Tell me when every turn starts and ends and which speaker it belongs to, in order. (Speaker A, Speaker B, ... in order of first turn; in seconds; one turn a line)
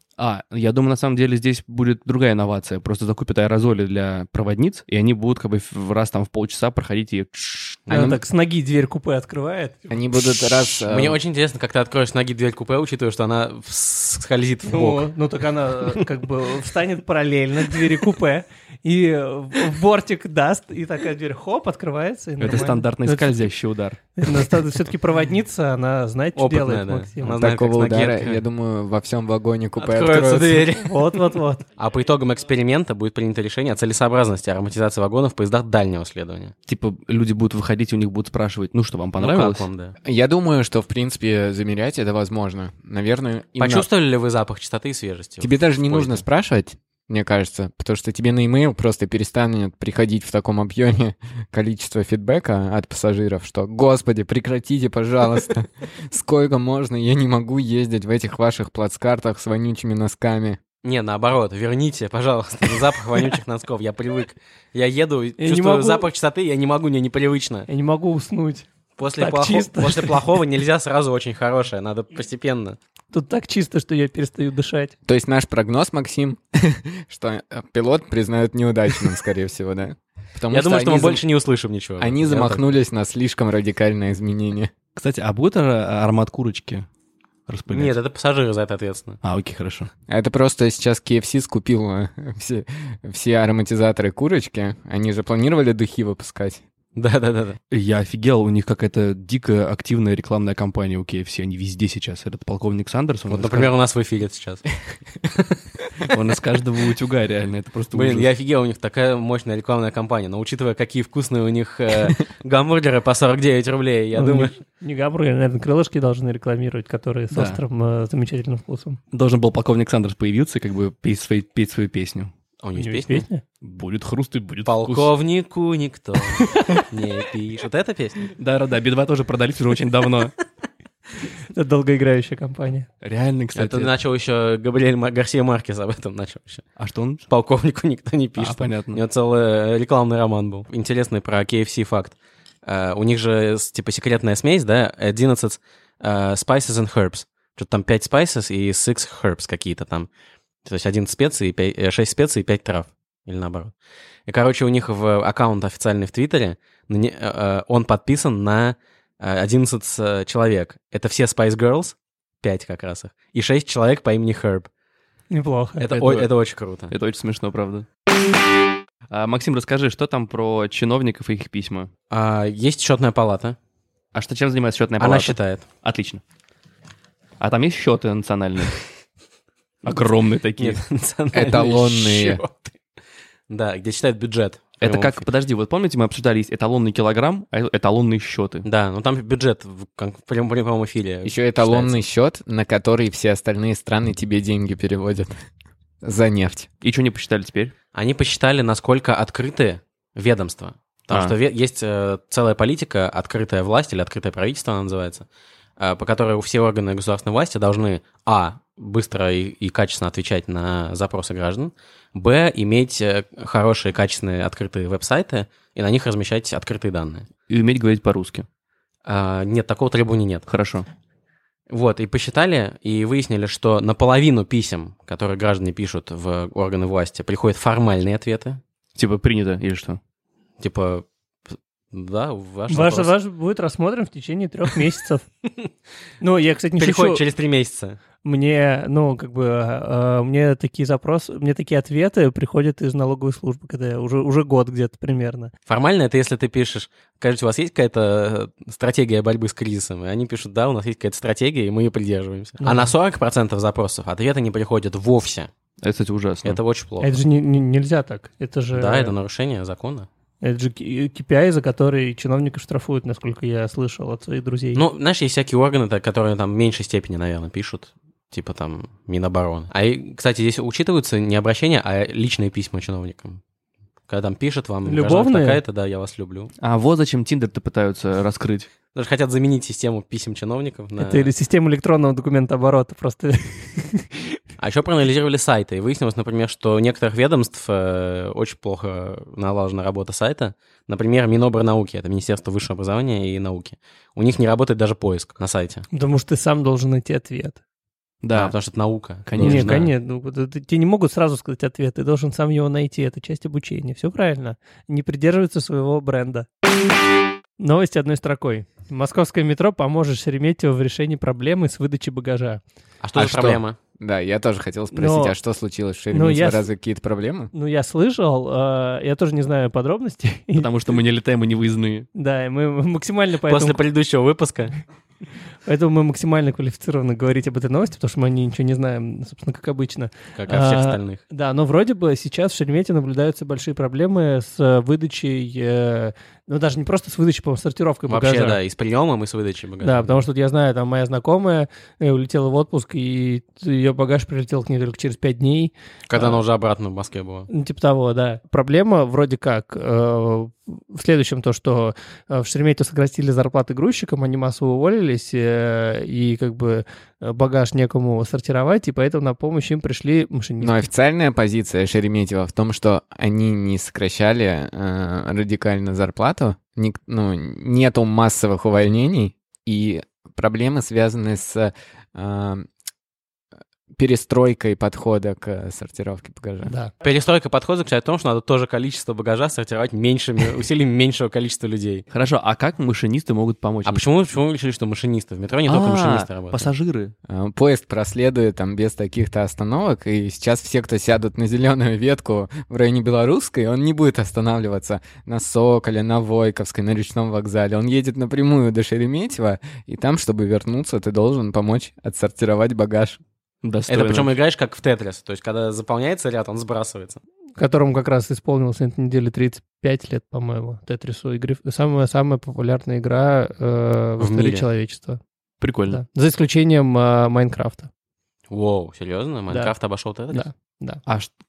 Speaker A: 0.2-7.8
Speaker B: 7.8-8.2
Speaker C: 7.9-8.2
Speaker D: 7.9-9.8
Speaker C: 9.9-11.2
Speaker B: 10.8-15.1
Speaker D: 14.7-23.4
Speaker A: 22.4-24.0
Speaker D: 24.1-27.4
Speaker B: 26.4-28.4
Speaker C: 27.3-30.7
Speaker B: 29.8-31.1
Speaker D: 30.7-31.6
Speaker B: 31.8-36.5
Speaker A: 36.7-39.7
Speaker B: 39.2-40.0
Speaker C: 40.0-43.9
Speaker B: 43.6-46.2
Speaker C: 45.4-60.6
Speaker B: 60.8-67.7
Speaker D: 65.4-66.1
Speaker D: 67.7-70.3
Speaker B: 69.0-72.8
Speaker D: 73.1-74.9
Speaker C: 75.0-81.2
Speaker B: 80.5-82.7
Speaker C: 82.0-84.7
Speaker A: 84.9-86.9
Speaker A: 87.5-87.9
Speaker B: 87.7-89.2
Speaker A: 89.2-89.9
Speaker C: 90.1-96.6
Speaker B: 96.9-97.6
Speaker A: 97.7-103.7
Speaker B: 103.3-104.7
Speaker A: 106.1-108.3
Speaker B: 107.9-114.5
Speaker D: 114.2-119.0
Speaker A: 117.3-117.6
Speaker A: 119.1-122.3
Speaker B: 122.6-123.2
Speaker D: 122.8-123.4
Speaker A: 123.6-125.1
Speaker B: 124.6-128.3
Speaker D: 126.4-126.7
Speaker A: 128.3-130.3
Speaker D: 131.5-132.9
Speaker A: 133.0-133.9
Speaker B: 133.5-136.7
Speaker A: 136.8-137.3
Speaker B: 137.3-150.1
Speaker A: 138.4-139.0
Speaker B: 150.6-153.7
Speaker B: 154.3-164.7
Speaker D: 165.3-165.9
Speaker B: 165.8-166.9
Speaker A: 165.9-166.3
Speaker A: 166.9-167.9
Speaker A: 169.1-171.9
Speaker B: 172.1-173.6
Speaker A: 174.1-176.2
Speaker B: 175.0-175.7
Speaker A: 177.4-178.8
Speaker A: 179.8-180.8
Speaker B: 180.6-182.7
Speaker C: 181.3-182.4
Speaker B: 183.5-185.3
Speaker A: 184.8-188.7
Speaker B: 188.6-192.0
Speaker C: 191.2-195.4
Speaker C: 196.0-196.7
Speaker A: 196.8-197.7
Speaker B: 197.9-205.2
Speaker B: 205.8-217.3
Speaker A: 217.5-218.5
Speaker B: 219.0-220.5
Speaker A: 220.5-220.8
Speaker B: 221.7-228.6
Speaker A: 228.9-230.0
Speaker B: 230.6-233.1
Speaker D: 232.7-235.2
Speaker D: 236.2-237.2
Speaker B: 236.8-238.0
Speaker D: 238.2-245.5
Speaker B: 245.7-255.5
Speaker D: 252.6-252.9
Speaker A: 255.8-256.6
Speaker B: 256.4-257.2
Speaker D: 257.0-259.1
Speaker B: 258.7-260.1
Speaker D: 260.4-264.8
Speaker B: 264.7-273.4
Speaker B: 274.1-276.5
Speaker D: 274.9-275.6
Speaker A: 276.6-278.7
Speaker B: 278.9-281.3
Speaker D: 281.0-284.2
Speaker B: 284.6-295.9
Speaker D: 295.9-297.6
Speaker A: 298.2-298.5
Speaker B: 298.3-299.9
Speaker A: 299.2-299.9
Speaker D: 299.4-306.5
Speaker D: 307.6-312.6
Speaker B: 313.0-313.8
Speaker C: 313.1-317.5
Speaker D: 314.9-315.3
Speaker D: 316.1-316.7
Speaker D: 317.5-320.7
Speaker A: 320.6-322.1
Speaker D: 322.1-323.8
Speaker B: 323.5-324.8
Speaker D: 325.6-338.6
Speaker B: 330.4-331.2
Speaker B: 338.1-340.2
Speaker D: 339.8-346.4
Speaker B: 346.1-347.5
Speaker D: 347.5-360.9
Speaker C: 360.6-372.7
Speaker C: 373.9-376.7
Speaker D: 376.6-376.9
Speaker B: 377.0-382.1
Speaker A: 382.1-384.0
Speaker B: 383.8-386.7
Speaker A: 385.6-387.1
Speaker C: 387.3-403.2
Speaker A: 403.6-404.3
Speaker B: 403.9-407.2
Speaker D: 407.6-415.2
Speaker B: 414.2-414.6
Speaker A: 415.6-416.0
Speaker D: 415.9-417.9
Speaker B: 418.5-420.5
Speaker D: 420.3-421.0
Speaker A: 421.1-421.3